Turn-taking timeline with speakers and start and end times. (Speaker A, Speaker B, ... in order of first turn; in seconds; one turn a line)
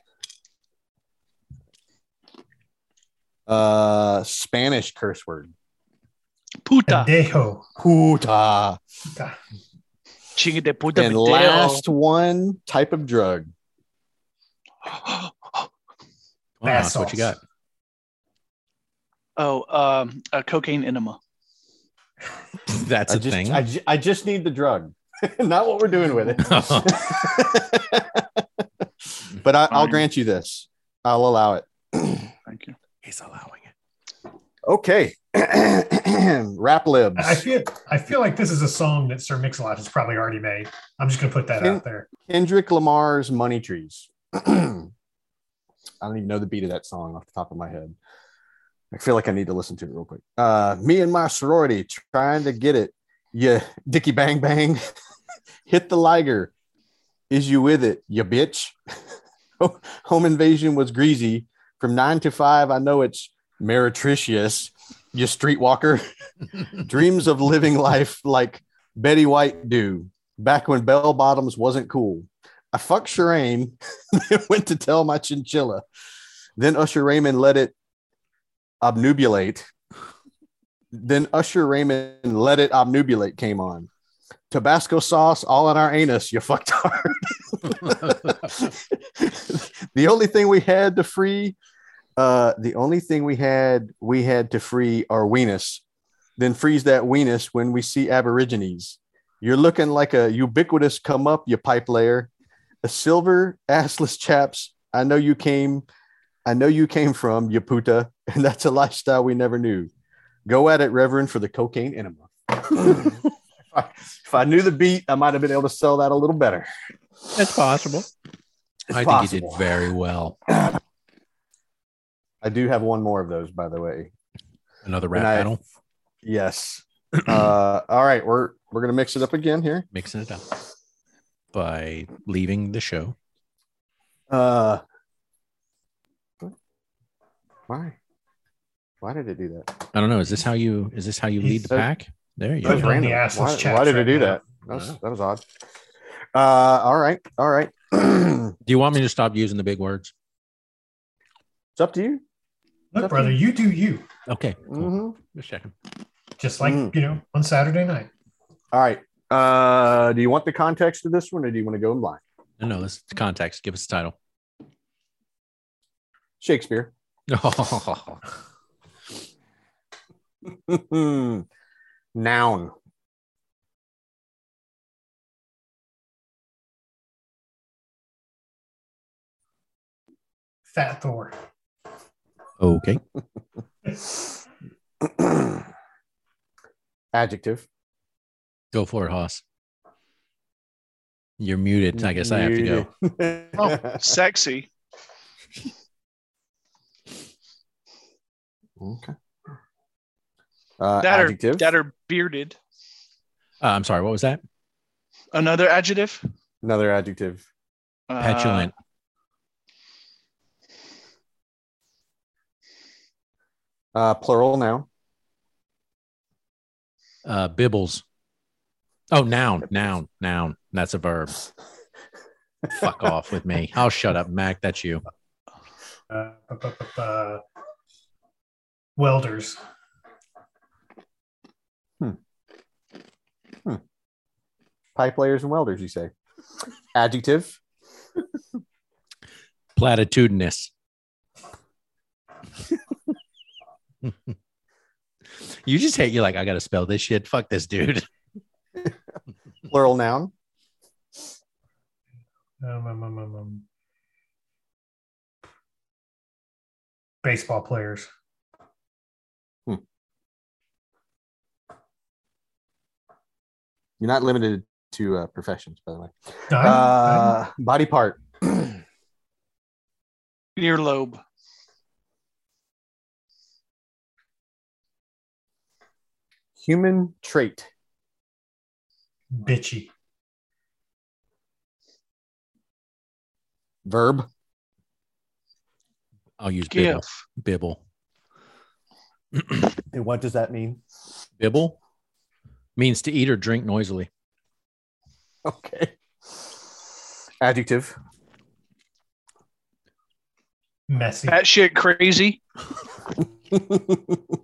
Speaker A: 3.5-5.5
Speaker B: 6.6-7.1
Speaker C: 6.9-7.7
Speaker A: 7.8-8.8
Speaker B: 10.3-11.8
Speaker A: 10.9-13.5
Speaker B: 14.8-15.7
Speaker D: 16.6-17.4
Speaker C: 16.6-17.4
Speaker B: 19.4-21.2
Speaker D: 22.7-23.6
Speaker A: 23.1-28.6
Speaker D: 26.4-27.1
Speaker A: 29.4-32.3
Speaker B: 29.7-30.0
Speaker B: 32.5-32.8
Speaker D: 33.0-33.7
Speaker A: 34.6-37.4
Speaker C: 37.1-42.1
Speaker A: 41.6-44.9
Speaker A: 46.0-48.0
Speaker A: 48.9-54.9
Speaker A: 55.6-56.5
Speaker A: 57.3-58.8
Speaker A: 59.6-66.0
Speaker A: 66.7-75.8
Speaker A: 76.6-77.7
Speaker A: 78.8-79.7
Speaker A: 80.9-83.9
Speaker A: 84.5-91.5
Speaker A: 92.2-95.8
Speaker A: 96.4-102.3
Speaker A: 102.8-105.8
Speaker A: 106.4-109.9
Speaker A: 110.5-116.7
Speaker D: 117.3-118.1
Speaker A: 118.9-119.7
Speaker D: 118.9-120.4
Speaker A: 120.5-120.8
Speaker A: 122.4-124.1
Speaker D: 124.8-125.6
Speaker A: 125.1-125.5
Speaker A: 126.2-129.9
Speaker D: 129.9-130.4
Speaker D: 131.5-133.1
Speaker A: 134.3-134.8
Speaker A: 137.7-137.9
Speaker A: 139.0-139.7
Speaker D: 139.9-142.9
Speaker C: 141.4-141.7
Speaker A: 142.6-145.4
Speaker C: 142.6-144.4
Speaker A: 146.3-148.6
Speaker D: 148.7-150.1
Speaker A: 151.8-152.2
Speaker C: 152.9-154.1
Speaker A: 153.0-153.4
Speaker D: 154.3-155.7
Speaker A: 154.7-155.2
Speaker C: 156.4-158.1
Speaker A: 156.6-156.9
Speaker A: 158.7-162.2
Speaker D: 162.6-164.1
Speaker A: 166.4-166.9
Speaker D: 167.3-168.2
Speaker A: 170.4-171.4
Speaker A: 172.1-172.7
Speaker C: 180.7-181.3
Speaker D: 182.6-183.0
Speaker A: 185.0-185.7
Speaker A: 187.1-187.7
Speaker D: 188.7-189.4
Speaker D: 191.4-192.8
Speaker A: 191.9-194.2
Speaker B: 193.6-194.7
Speaker A: 198.8-199.1
Speaker A: 200.8-201.7
Speaker B: 201.0-202.6
Speaker D: 203.6-204.4
Speaker B: 205.3-206.2
Speaker A: 206.6-207.4
Speaker B: 208.1-208.7
Speaker D: 208.2-208.7
Speaker A: 213.9-214.9
Speaker D: 217.2-218.0
Speaker D: 219.1-221.4
Speaker D: 222.7-225.0
Speaker C: 226.1-227.4
Speaker C: 229.0-229.6
Speaker A: 234.9-236.1
Speaker A: 236.9-237.6
Speaker D: 239.8-240.7
Speaker D: 245.4-248.1
Speaker A: 249.7-250.3
Speaker C: 252.6-253.6
Speaker C: 257.2-258.1
Speaker A: 264.0-268.8
Speaker C: 266.5-267.4
Speaker B: 270.6-271.2
Speaker A: 276.6-277.7
Speaker C: 279.3-279.9
Speaker A: 283.9-284.3
Speaker D: 286.4-287.8
Speaker B: 286.7-287.0
Speaker A: 289.9-290.8
Speaker D: 291.4-291.8
Speaker D: 292.8-294.1
Speaker A: 295.4-295.9
Speaker A: 297.4-297.9
Speaker C: 300.9-301.4
Speaker B: 301.3-302.4
Speaker A: 303.5-304.3